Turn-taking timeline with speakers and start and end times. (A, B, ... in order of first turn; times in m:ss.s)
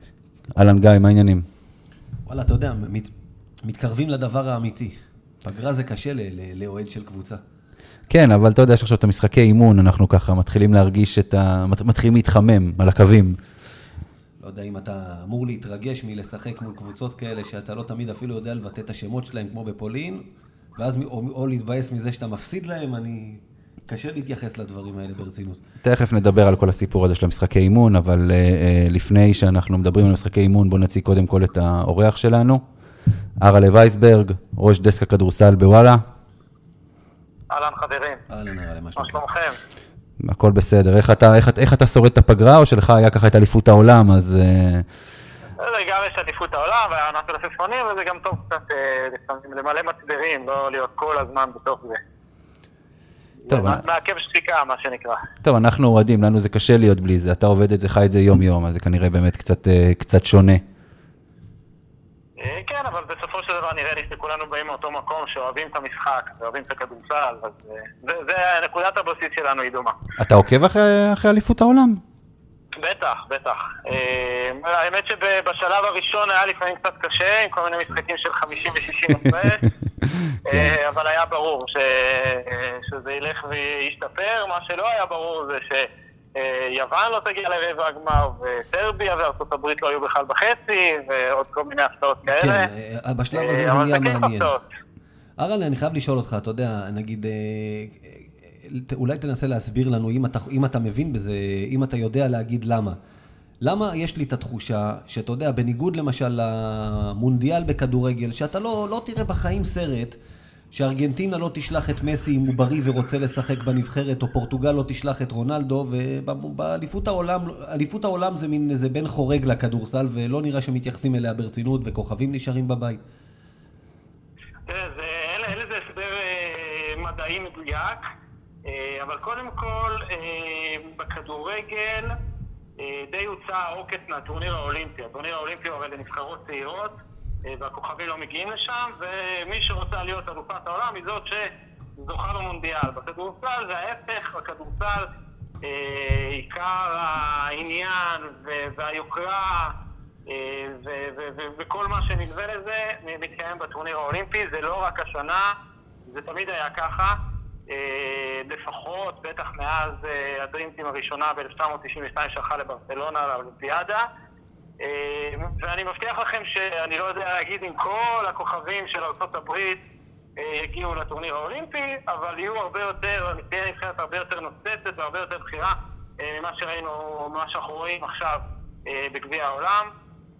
0:00.5-0:01.4 A
0:02.3-0:07.4 B
0:08.1-0:13.4 A
0:14.4-0:25.6 B
0:25.8-0:32.6 A
0:33.4-0:36.0 A
0:37.5-0:38.2 C
0:38.3-0:39.2 B
0:39.0-0:39.6 C
0:40.2-0:44.8 A
0:45.6-0:52.0 C
0:53.5-0:55.2 C
0:53.5-0:53.8 A
0:55.4-1:00.6 A
1:02.4-1:10.0 C
1:10.2-1:12.0 A
1:12.7-1:19.7 C
1:20.4-1:32.7 C
1:32.3-1:34.5 B
1:33.3-1:34.6 C
1:35.4-1:43.0 B
1:43.6-1:50.2 B
1:50.7-2:03.0 B
2:04.6-2:08.0 C
2:08.6-2:12.2 C
2:12.8-2:25.1 C
2:25.6-2:35.6 C
2:36.1-2:44.1 C
2:44.8-2:49.8 C
2:50.4-2:59.9 C